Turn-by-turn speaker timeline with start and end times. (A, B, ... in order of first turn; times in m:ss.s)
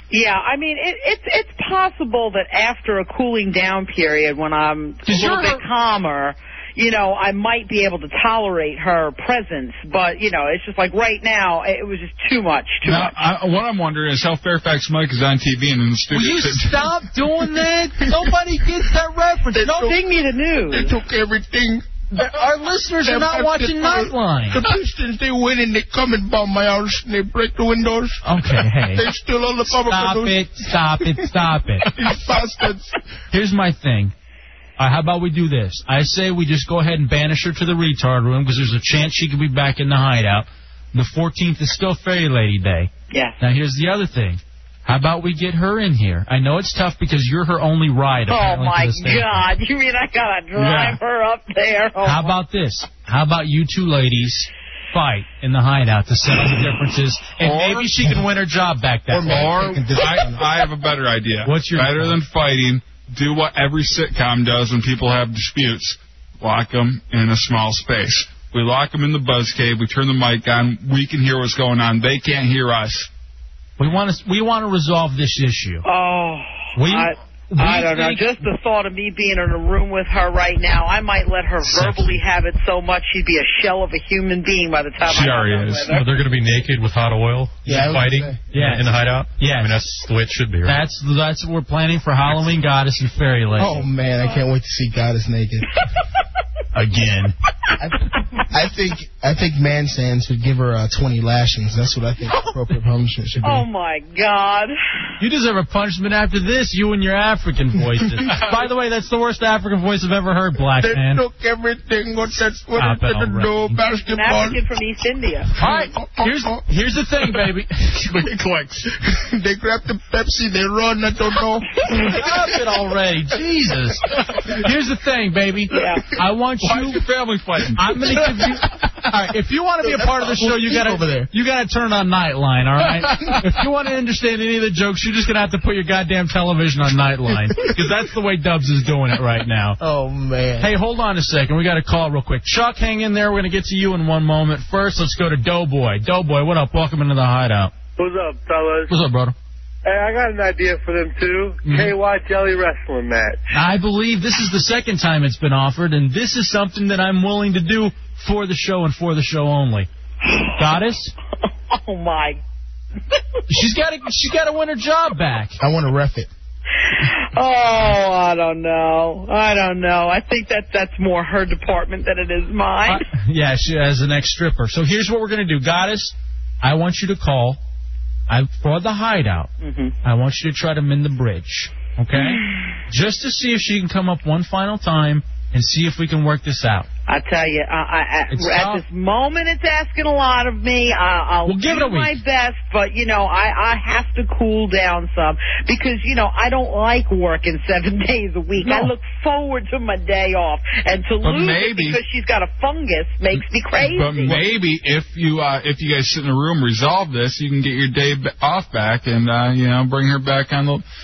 0:00.1-0:13.1 A
0:05.1-0:05.6 B
0:12.8-0:16.9 C
0:16.1-0:20.0 B
0:19.6-0:19.9 D
0:19.8-0:21.0 A
0:20.7-0:21.8 D
0:22.1-0:24.6 B
0:23.0-0:28.2 D
0:28.2-0:29.0 B
0:28.9-0:31.2 D
0:29.9-0:31.9 B
0:31.9-0:32.9 D
0:33.3-0:34.1 B
0:34.8-0:49.4 B
0:43.1-0:43.4 A
0:48.3-0:52.3 A
0:50.6-0:51.0 B
0:52.0-0:59.7 B
0:57.4-0:58.0 C
0:59.1-1:00.4 D
0:59.3-1:13.1 C
1:01.4-1:02.2 B
1:13.8-1:15.8 B
1:15.8-1:26.1 A
1:16.8-1:18.2 B
1:21.6-1:22.2 B
1:25.1-1:30.8 E
1:27.6-1:28.4 D
1:28.5-1:29.9 B
1:30.6-1:33.8 B
1:33.6-1:35.6 D
1:36.7-1:37.3 B
1:38.5-1:43.6 D
1:43.4-1:44.7 A
1:45.2-1:51.2 B
1:50.8-1:54.6 D
1:52.8-1:53.8 B
1:54.0-1:55.5 A
1:55.6-1:58.1 B
1:55.6-1:56.6 D
1:58.1-1:58.9 C
1:59.1-2:01.7 D
2:01.9-2:07.0 B
2:05.7-2:06.0 A
2:06.6-2:08.5 C
2:07.8-2:19.8 B
2:09.8-2:11.3 D
2:19.8-2:20.7 D
2:20.6-2:27.7 B
2:28.0-2:28.9 F
2:28.9-2:29.3 B
2:29.8-2:33.4 F
2:31.6-2:32.0 B
2:33.5-2:39.9 B
2:40.2-2:40.5 A
2:40.6-2:41.1 B
2:41.7-2:42.4 A
2:43.5-2:45.6 B
2:45.6-2:46.3 D
2:47.0-2:53.0 A
2:52.9-2:57.6 B
2:58.3-2:59.5 B
2:59.6-3:00.0 A
3:00.0-3:06.9 B
3:02.2-3:02.5 A
3:07.1-3:24.5 A
3:08.3-3:08.8 B
3:11.5-3:12.2 B
3:21.2-3:22.0 C
3:23.8-3:30.8 C